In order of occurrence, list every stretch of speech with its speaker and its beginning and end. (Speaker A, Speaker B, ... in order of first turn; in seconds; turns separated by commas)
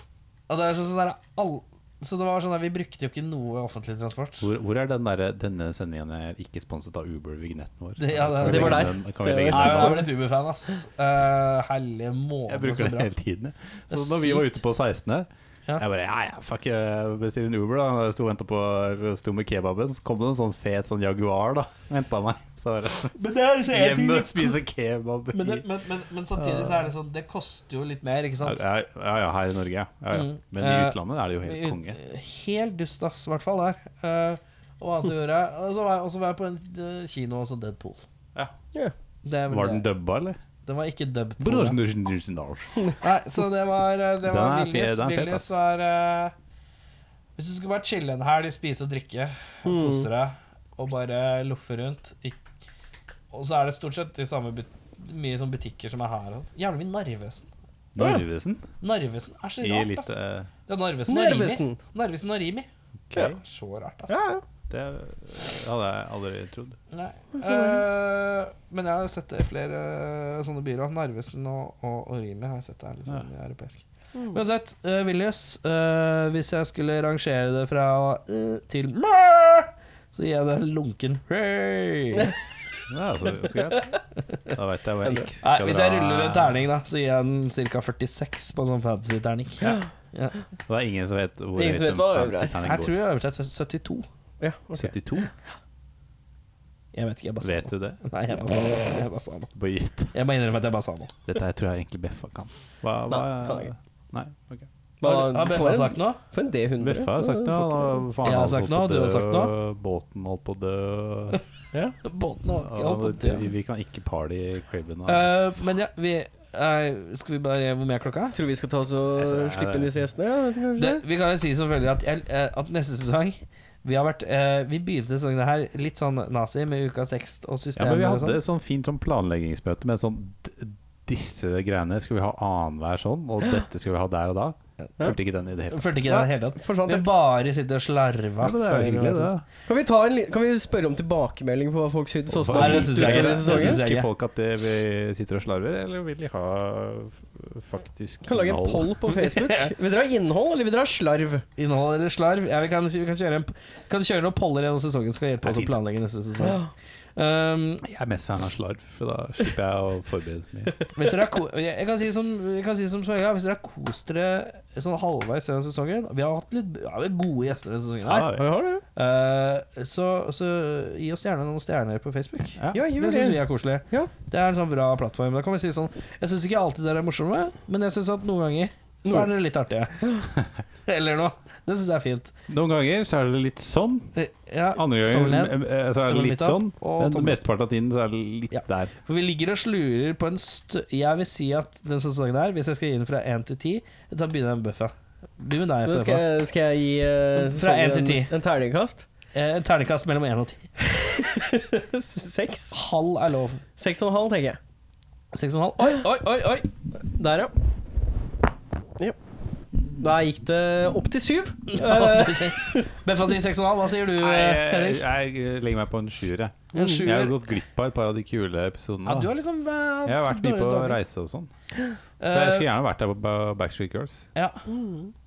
Speaker A: 0.5-4.5, Speaker B: 4.4-10.1, Speaker A: 8.0-8.9, Speaker C: 8.4-10.1, Speaker A: 9.5-13.1, Speaker B: 12.5-25.6, Speaker A: 13.9-14.5, Speaker A: 23.2-24.6, Speaker A: 25.3-28.6, Speaker B: 26.4-26.8, Speaker B: 28.4-32.0, Speaker A: 30.1-38.0, Speaker A: 39.2-39.9, Speaker B: 39.5-40.4, Speaker A: 40.6-41.8, Speaker B: 41.4-42.7, Speaker A: 43.0-46.3, Speaker B: 44.2-45.6, Speaker A: 47.4-52.4, Speaker C: 49.6-50.1, Speaker A: 53.3-57.5, Speaker B: 57.9-58.6, Speaker A: 58.8-62.7, Speaker B: 59.6-60.5, Speaker C: 61.1-61.8, Speaker B: 63.1-63.4, Speaker A: 63.2-64.3, Speaker C: 64.1-64.4, Speaker B: 64.7-66.8, Speaker A: 66.9-82.3, Speaker C: 67.3-67.8, Speaker B: 82.9-83.9, Speaker B: 84.5-86.6, Speaker A: 85.4-90.3, Speaker B: 90.7-93.0, Speaker C: 91.5-92.5, Speaker A: 92.6-94.0, Speaker C: 94.4-95.0, Speaker B: 94.7-95.3, Speaker A: 96.9-99.5, Speaker B: 97.4-98.0, Speaker B: 99.5-100.1, Speaker A: 100.1-101.1, Speaker B: 101.3-104.7, Speaker C: 103.1-103.7, Speaker C: 105.0-108.0, Speaker A: 105.0-106.2, Speaker B: 106.8-111.4, Speaker A: 108.2-109.5, Speaker A: 111.7-113.5, Speaker B: 112.5-115.3, Speaker A: 115.1-118.3, Speaker C: 118.3-121.0, Speaker B: 119.2-119.9, Speaker A: 120.8-128.4, Speaker B: 127.8-136.0, Speaker A: 135.7-139.3, Speaker C: 136.0-137.0, Speaker B: 138.4-139.4, Speaker C: 139.7-143.8, Speaker B: 142.3-149.0, Speaker A: 142.5-144.1, Speaker C: 148.2-151.4, Speaker A: 149.1-149.7, Speaker A: 151.6-156.6, Speaker B: 155.4-155.8, Speaker C: 156.4-156.7, Speaker A: 157.2-157.8, Speaker B: 157.8-160.7, Speaker A: 160.9-168.3, Speaker B: 168.0-168.4, Speaker C: 168.3-168.8, Speaker A: 168.9-180.0, Speaker B: 172.6-172.8, Speaker C: 172.7-174.1, Speaker A: 180.9-182.3, Speaker B: 182.5-184.1, Speaker A: 184.1-187.4, Speaker B: 184.7-188.9, Speaker A: 188.5-196.2, Speaker C: 195.8-199.1, Speaker A: 197.3-198.3, Speaker A: 199.3-200.7, Speaker C: 200.8-202.8, Speaker A: 202.7-203.6, Speaker C: 203.8-204.6, Speaker A: 205.3-206.7, Speaker C: 207.2-207.5, Speaker C: 209.8-212.8, Speaker A: 211.7-215.0, Speaker B: 214.2-219.3, Speaker A: 216.7-217.4, Speaker A: 219.1-221.0, Speaker B: 220.0-221.5, Speaker A: 222.2-222.7, Speaker B: 222.3-224.2, Speaker A: 224.3-224.6, Speaker C: 224.7-225.1